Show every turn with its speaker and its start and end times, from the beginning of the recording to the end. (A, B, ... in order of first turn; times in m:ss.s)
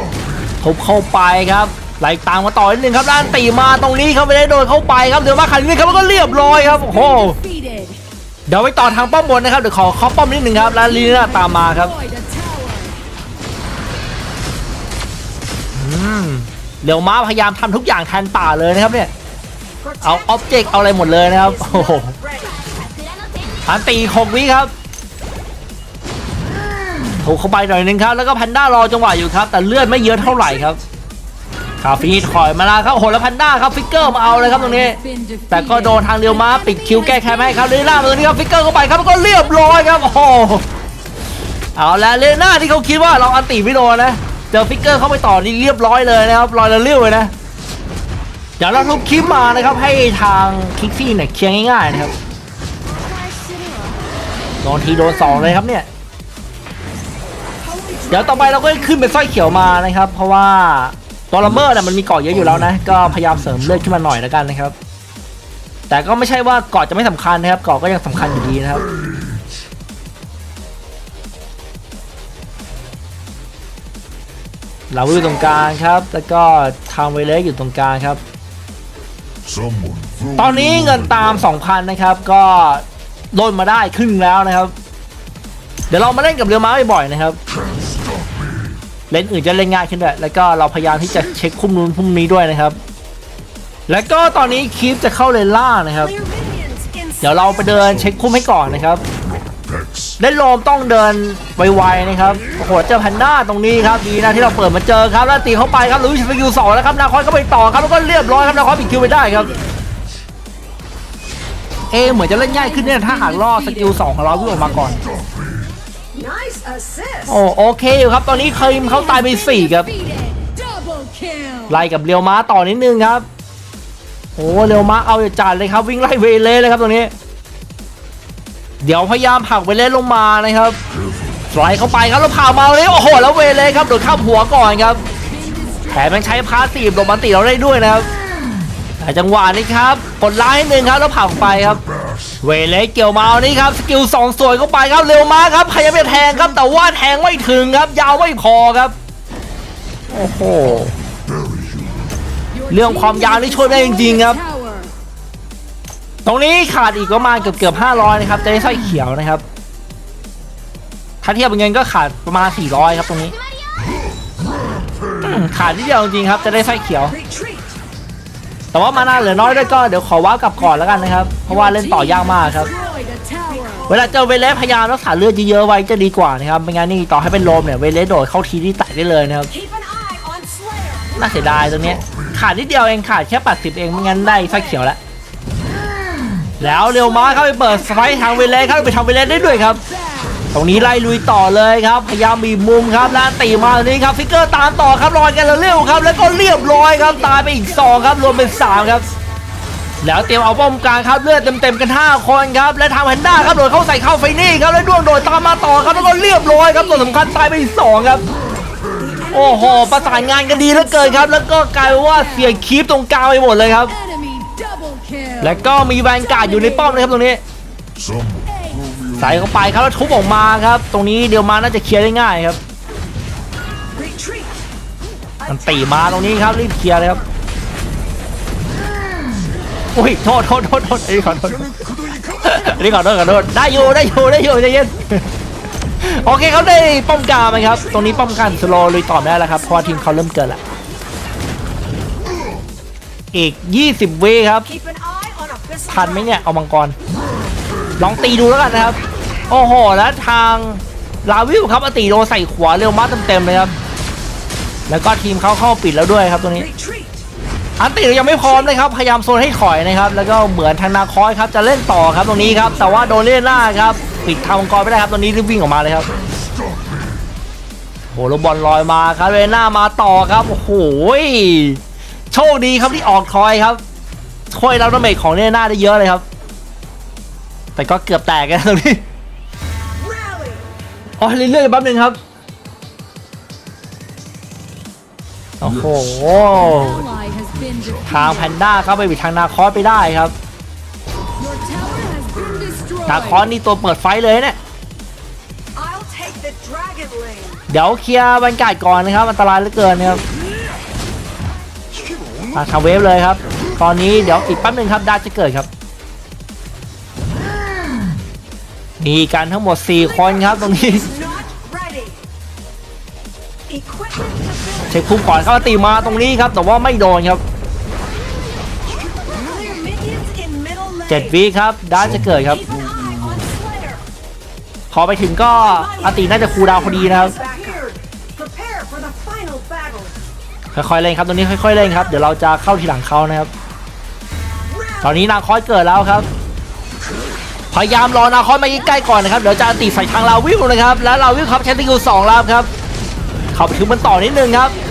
0:00.6-0:07.4 A
0:06.8-0:08.0 B
0:08.5-0:12.0 A
0:12.0-0:13.0 B
0:15.8-0:19.1 A
0:20.0-0:22.1 A
0:21.7-0:22.6 C
0:23.6-0:24.7 A
0:27.2-0:30.8 A
0:31.8-0:40.6 A
0:35.0-0:35.6 B
0:41.8-0:47.3 A
0:48.6-0:52.2 A
0:53.0-0:54.0 C
0:54.6-0:55.9 A
0:57.6-0:58.8 C
0:58.1-1:04.7 A
1:05.9-1:08.9 A
1:14.9-1:18.2 A
1:19.5-1:20.4 D
1:20.4-1:24.7 A
1:25.9-1:27.4 A
1:29.1-1:32.8 A
1:33.9-1:36.2 A
1:36.1-1:37.3 C
1:37.2-1:39.0 A
1:39.5-1:40.0 D
1:40.2-1:49.6 A
1:51.9-1:55.0 A
1:53.0-1:53.5 B
1:56.1-1:57.3 C
1:57.3-1:59.9 A
1:59.2-2:01.7 B
2:01.7-2:03.3 A
2:04.4-2:07.1 A
2:08.8-2:10.8 A
2:11.5-2:15.0 A
2:15.5-2:15.9 B
2:15.9-2:18.1 A
2:19.0-2:21.8 A
2:22.4-2:29.0 A
2:30.1-2:30.9 A
2:31.5-2:31.9 D
2:32.7-2:34.4 A
2:34.4-2:34.9 B
2:36.2-2:39.4 A
2:41.2-2:43.4 A
2:45.2-2:47.2 A
2:47.1-2:47.7 C
2:48.7-2:52.7 A
2:52.7-2:53.8 B
2:53.3-2:53.8 C
2:53.9-2:59.5 A
2:59.5-3:01.1 C
3:01.2-3:05.0 A
3:06.6-3:09.8 A
3:10.5-3:19.1 A
3:20.0-3:28.2 A
3:29.0-3:31.2 C
3:29.3-3:34.0 A
3:34.0-3:35.4 B
3:35.4-3:37.4 A
3:38.0-3:39.1 D
3:38.5-3:38.8 B
3:39.2-3:42.6 A
3:43.9-3:44.6 C
3:45.5-3:47.2 A
3:49.9-3:51.7 A
3:52.3-3:55.3 A
3:56.0-4:00.6 A
4:03.3-4:04.7 A
4:04.7-4:06.2 C
4:05.9-4:07.0 A
4:08.0-4:13.8 A
4:14.9-4:16.7 A
4:16.7-4:17.2 C
4:17.8-4:26.1 A
4:28.1-4:33.8 A
4:34.5-4:36.2 A
4:37.8-4:39.0 A
4:40.0-4:40.7 C
4:41.2-4:42.2 A
4:45.6-4:47.1 A
4:46.9-4:48.0 B
4:48.0-4:50.3 A
4:51.4-4:53.1 B
4:53.1-4:54.6 A
4:55.8-4:57.6 C
4:57.7-5:00.2 A
5:02.5-5:05.7 A
5:09.0-5:11.1 A
5:10.9-5:12.2 C
5:13.7-5:14.9 C
5:14.9-5:17.4 A
5:18.8-5:21.1 C
5:21.1-5:22.7 A
5:22.8-5:23.5 D
5:22.8-5:24.0 C
5:24.9-5:27.4 A
5:26.6-5:30.1 C
5:30.7-5:33.5 A
5:35.0-5:36.3 A
5:37.7-5:42.7 A
5:43.5-5:44.8 A